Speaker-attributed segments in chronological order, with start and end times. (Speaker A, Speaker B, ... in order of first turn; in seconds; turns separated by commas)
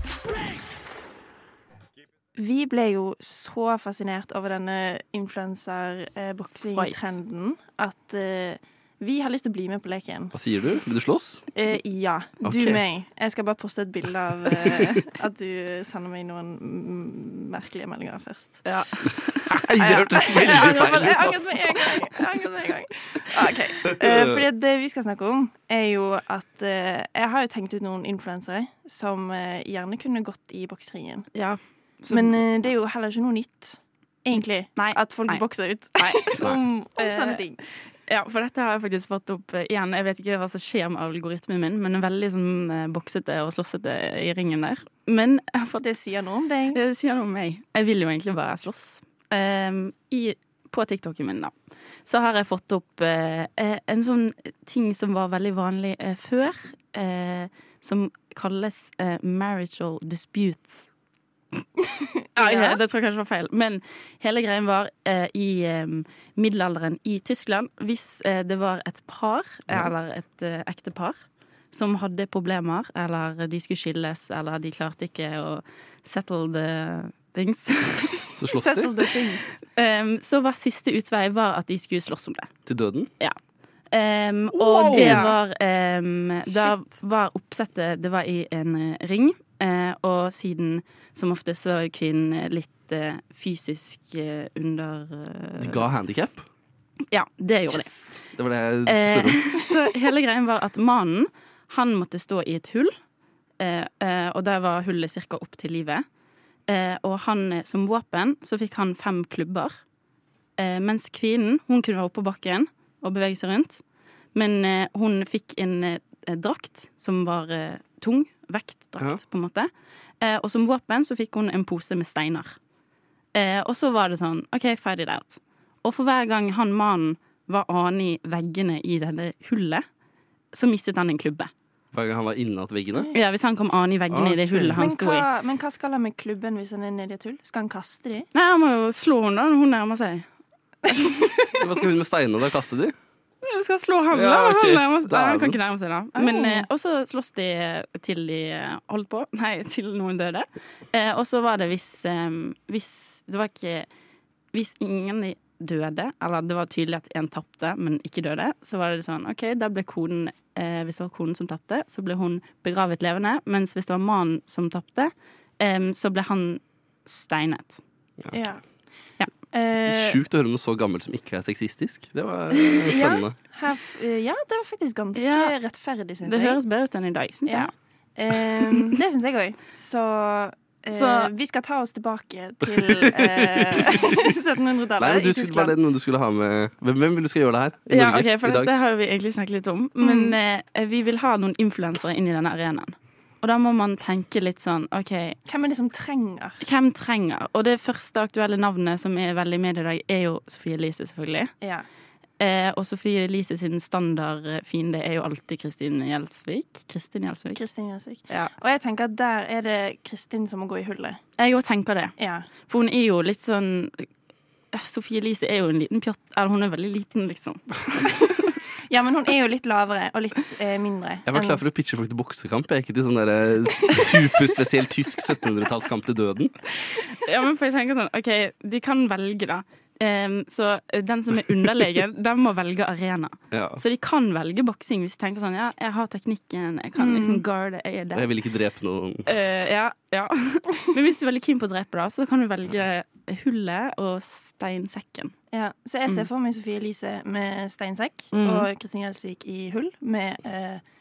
Speaker A: 2.4-10.3, Speaker B: 6.8-7.2, Speaker C: 10.3-11.5, Speaker A: 11.5-18.7, Speaker C: 12.4-12.8, Speaker C: 14.7-14.9, Speaker B: 18.6-19.5, Speaker C: 19.5-22.1, Speaker A: 19.8-31.3, Speaker C: 23.9-24.4, Speaker B: 31.3-32.5, Speaker A: 32.1-37.6, Speaker B: 34.8-35.5, Speaker B: 36.0-36.3, Speaker B: 37.0-45.8, Speaker A: 45.8-46.8, Speaker B: 46.7-51.5, Speaker B: 52.0-60.9, Speaker A: 62.4-62.8, Speaker B: 62.4-71.2, Speaker B: 71.7-78.3, Speaker C: 78.4-78.9, Speaker A: 78.5-79.6, Speaker B: 79.8-82.5, Speaker C: 82.7-83.1, Speaker B: 83.9-95.8, Speaker C: 84.5-85.3, Speaker A: 84.9-85.3, Speaker A: 86.5-86.9, Speaker C: 95.6-96.5, Speaker B: 97.1-98.0, Speaker A: 97.7-98.2, Speaker C: 98.3-99.5, Speaker B: 98.9-103.0, Speaker B: 103.6-106.0, Speaker B: 106.7-109.8, Speaker B: 110.6-113.8, Speaker B: 114.3-119.7, Speaker B: 120.2-122.6, Speaker B: 123.3-129.8, Speaker B: 130.5-131.5, Speaker C: 131.9-133.1, Speaker B: 133.1-135.3, Speaker C: 134.1-134.8, Speaker A: 134.8-138.3, Speaker B: 138.3-140.3, Speaker B: 140.9-141.1, Speaker A: 141.2-141.6, Speaker C: 141.6-142.9, Speaker B: 143.4-153.9, Speaker C: 144.1-145.6, Speaker A: 146.2-146.7, Speaker B: 154.5-167.8, Speaker A: 168.3-168.8, Speaker A: 169.5-170.2, Speaker C: 169.9-173.4, Speaker A: 172.9-176.6, Speaker B: 175.2-175.6, Speaker B: 176.2-177.7, Speaker A: 177.5-185.8, Speaker B: 180.9-181.3, Speaker C: 182.7-184.1, Speaker C: 185.0-188.7, Speaker B: 187.9-195.4, Speaker A: 190.0-190.4, Speaker A: 195.5-196.6, Speaker B: 196.6-201.5, Speaker A: 201.6-201.9, Speaker B: 202.4-207.6, Speaker A: 207.6-211.2, Speaker B: 211.4-214.1, Speaker A: 212.2-212.5, Speaker B: 214.7-218.3, Speaker A: 218.9-221.6, Speaker C: 221.3-226.6, Speaker B: 227.2-238.3, Speaker C: 233.5-233.8, Speaker A: 237.0-237.4, Speaker C: 238.1-239.3, Speaker B: 239.3-245.3, Speaker A: 245.5-250.8, Speaker B: 248.3-248.7